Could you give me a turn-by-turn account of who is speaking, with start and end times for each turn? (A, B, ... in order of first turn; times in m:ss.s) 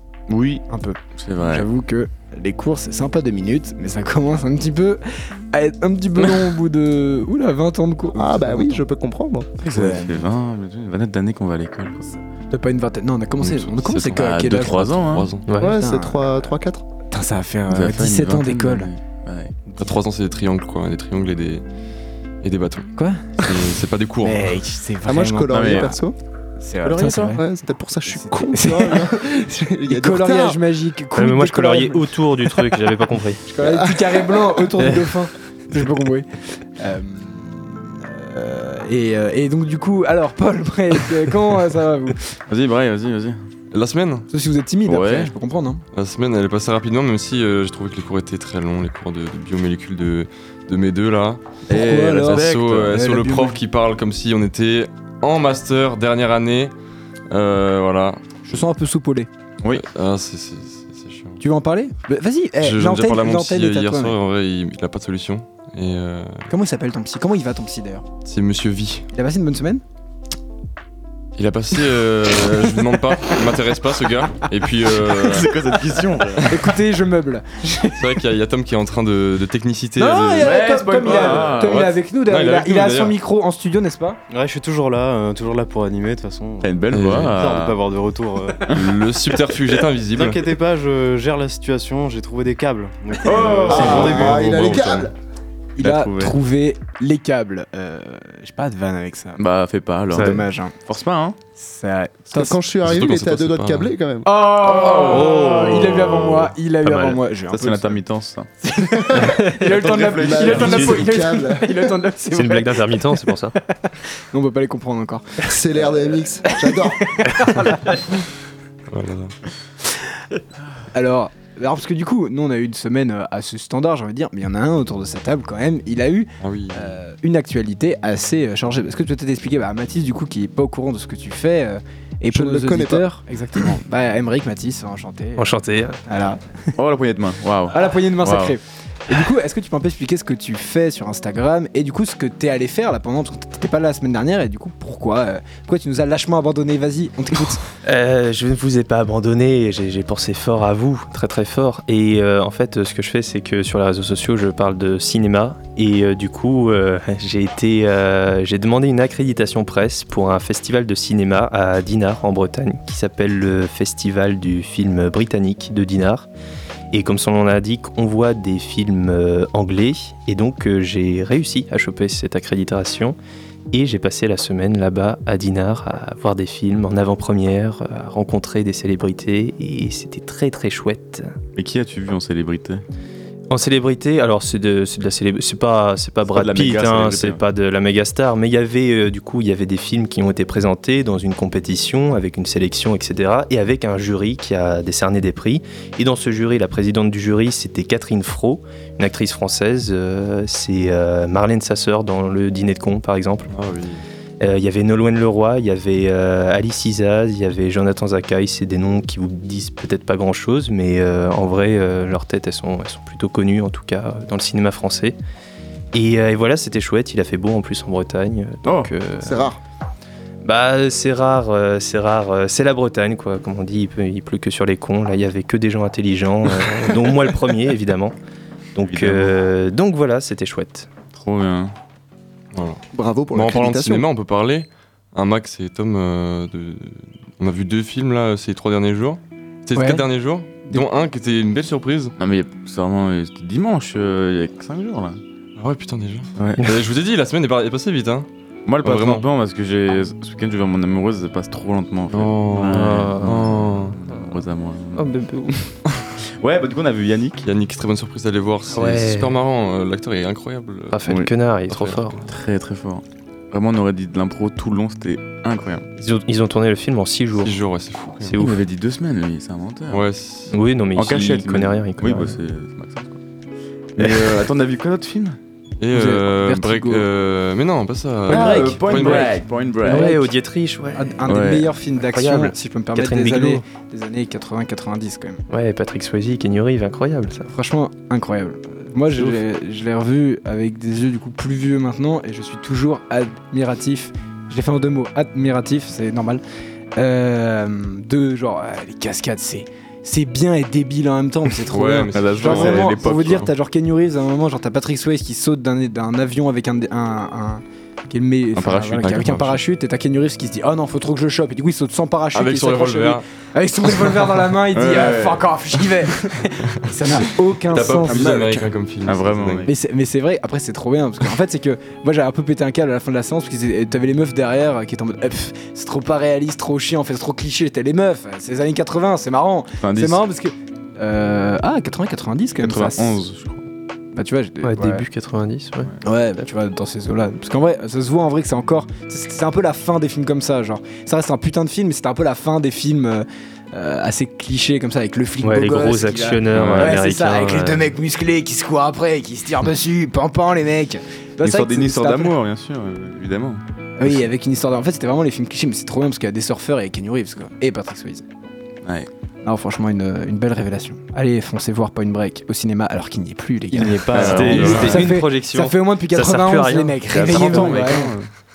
0:00.3-0:00.6 A
0:00.7-0:08.8 B
0:01.2-0:01.7 A
0:08.2-0:09.6 C
0:09.6-0:10.2 B
0:09.6-0:12.2 A
0:12.5-0:15.0 B
0:13.4-0:15.3 A
0:15.1-0:15.4 D
0:15.5-0:15.8 E
0:15.6-0:16.5 B
0:15.6-0:16.8 C
0:17.1-0:18.9 B
0:17.7-0:19.7 A
0:19.8-0:21.6 D
0:22.4-0:24.5 D
0:23.0-0:23.3 B
0:24.2-0:25.9 B
0:25.0-0:26.1 C
0:25.5-0:25.9 A
0:26.6-0:27.4 B
0:26.8-0:27.4 A
0:27.3-0:30.6 C
0:28.1-0:29.0 B
0:29.9-0:32.1 B
0:31.1-0:33.4 E
0:33.5-0:42.2 B
0:33.6-0:34.5 C
0:42.5-0:43.4 A
0:43.7-0:44.3 D
0:44.3-0:45.8 B
0:44.8-0:45.3 A
0:45.9-0:51.4 D
0:51.7-0:53.6 B
0:51.7-0:53.0 A
0:52.1-0:56.7 D
0:57.3-0:58.4 D
0:58.5-0:59.3 B
0:59.7-1:01.4 D
1:01.4-1:04.2 B
1:02.6-1:06.5 D
1:06.5-1:08.1 B
1:08.2-1:09.0 D
1:09.1-1:09.8 B
1:11.4-1:15.5 D
1:15.0-1:16.7 A
1:16.4-1:18.0 B
1:18.0-1:21.8 D
1:20.0-1:24.2 B
1:20.4-1:22.0 A
1:22.3-1:23.1 D
1:24.3-1:28.7 F
1:26.6-1:27.8 A
1:26.9-1:27.3 D
1:28.7-1:30.4 D
1:30.1-1:34.8 F
1:33.2-1:35.0 A
1:33.4-1:34.0 B
1:33.7-1:35.1 C
1:35.8-1:39.4 B
1:35.8-1:36.4 A
1:39.4-1:41.4 A
1:40.1-1:40.7 B
1:41.6-1:42.6 B
1:42.3-1:44.3 C
1:42.8-1:43.9 D
1:44.2-1:48.0 B
1:44.6-1:48.5 A
1:48.6-1:52.9 B
1:49.0-1:49.5 C
1:49.6-1:51.2 A
1:50.0-1:52.0 C
1:52.3-1:53.5 E
1:54.3-1:55.3 B
1:55.5-1:57.0 C
1:55.8-1:58.1 B
1:58.9-1:59.3 D
2:00.9-2:15.5 B
2:06.4-2:06.9 D
2:12.3-2:13.0 C
2:15.4-2:16.0 E
2:16.0-2:16.4 B
2:16.8-2:18.6 A
2:17.7-2:27.6 B
2:27.8-2:46.3 E
2:46.9-2:53.2 E
2:53.7-3:01.3 E
3:01.5-3:02.8 A
3:03.5-3:23.5 E
3:06.3-3:07.4 A
3:23.5-3:24.0 D
3:24.4-3:35.2 E
3:35.9-3:39.5 E
3:38.6-3:38.9 A
3:39.2-3:39.6 C
3:40.4-3:48.2 E
3:48.7-3:50.9 E
3:48.9-3:49.3 A
3:51.1-3:51.7 A
3:52.5-4:02.1 D
3:52.9-3:54.0 C
3:59.7-4:00.0 B
4:02.2-4:05.2 A
4:05.6-4:08.3 D
4:06.4-4:06.6 A
4:08.6-4:15.1 A
4:08.8-4:09.2 D
4:12.1-4:14.0 D
4:12.6-4:13.4 E
4:14.1-4:14.4 E
4:14.9-4:15.6 E
4:16.4-4:17.5 A
4:17.4-4:21.0 D
4:18.7-4:19.4 E
4:20.9-4:22.2 E
4:21.1-4:21.3 A
4:21.7-4:22.2 D
4:22.2-4:25.8 A
4:26.0-4:27.6 E
4:27.4-4:28.4 D
4:28.2-4:28.6 E
4:28.3-4:30.0 A
4:29.9-4:30.5 D
4:30.5-4:32.4 E
4:30.9-4:33.2 A
4:34.0-4:35.4 A
4:34.0-4:34.4 E
4:35.8-4:39.3 D
4:35.9-4:37.1 B
4:38.3-4:41.2 E
4:38.3-4:40.1 A
4:38.3-4:40.3 B
4:40.9-4:45.4 B
4:41.3-4:41.7 A
4:42.0-4:43.6 E
4:45.5-4:47.5 E
4:47.5-4:56.4 B
4:57.0-5:18.6 B
5:01.7-5:03.0 D
5:02.1-5:03.5 A
5:08.5-5:09.6 A
5:12.3-5:13.2 D
5:14.7-5:15.5 A
5:17.7-5:19.6 D
5:19.0-5:19.7 A
5:19.6-5:33.2 B
5:29.8-5:30.2 A
5:32.6-5:33.6 A
5:34.1-5:35.0 B
5:34.6-5:35.9 E
5:36.0-5:52.4 B
5:45.4-5:47.9 E
5:46.5-5:46.9 A
5:51.4-5:53.6 A
5:54.0-5:58.2 B
5:58.8-5:59.1 A
5:59.4-6:08.1 B
6:03.7-6:04.9 F
6:04.1-6:07.8 E
6:04.2-6:04.9 A
6:04.4-6:05.0 D
6:07.1-6:08.2 A